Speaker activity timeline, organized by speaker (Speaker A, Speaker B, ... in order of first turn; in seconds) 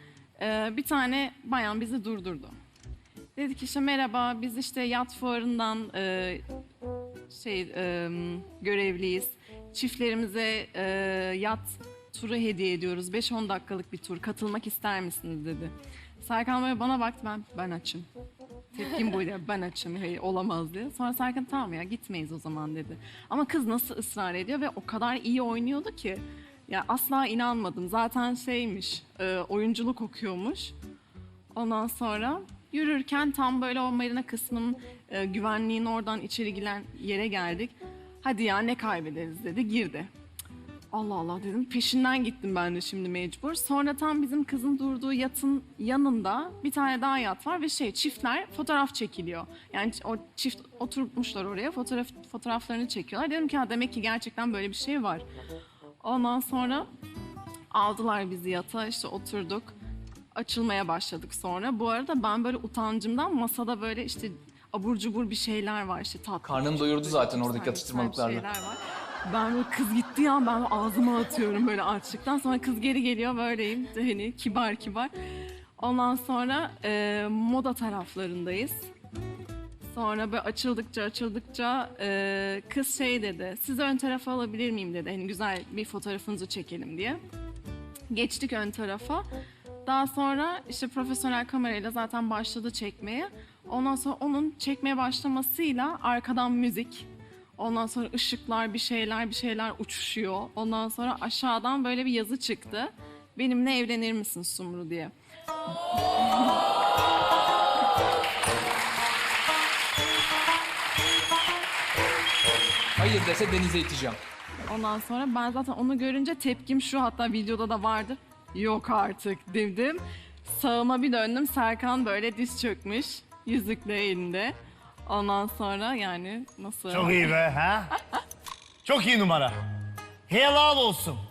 Speaker A: 0.4-2.5, 3.4-6.4, 7.3-18.1, 18.7-30.8, 31.5-40.1, 40.9-55.2, 56.0-56.9, 57.7-59.8, 60.3-75.1, 75.8-78.9, 79.9-87.2, 88.1-89.3, 89.9-105.1, 114.7-124.5, 125.1-127.3
Speaker B: 66.4-68.5, 113.0-114.2
Speaker C: 126.9-127.9, 128.8-129.5, 130.3-131.2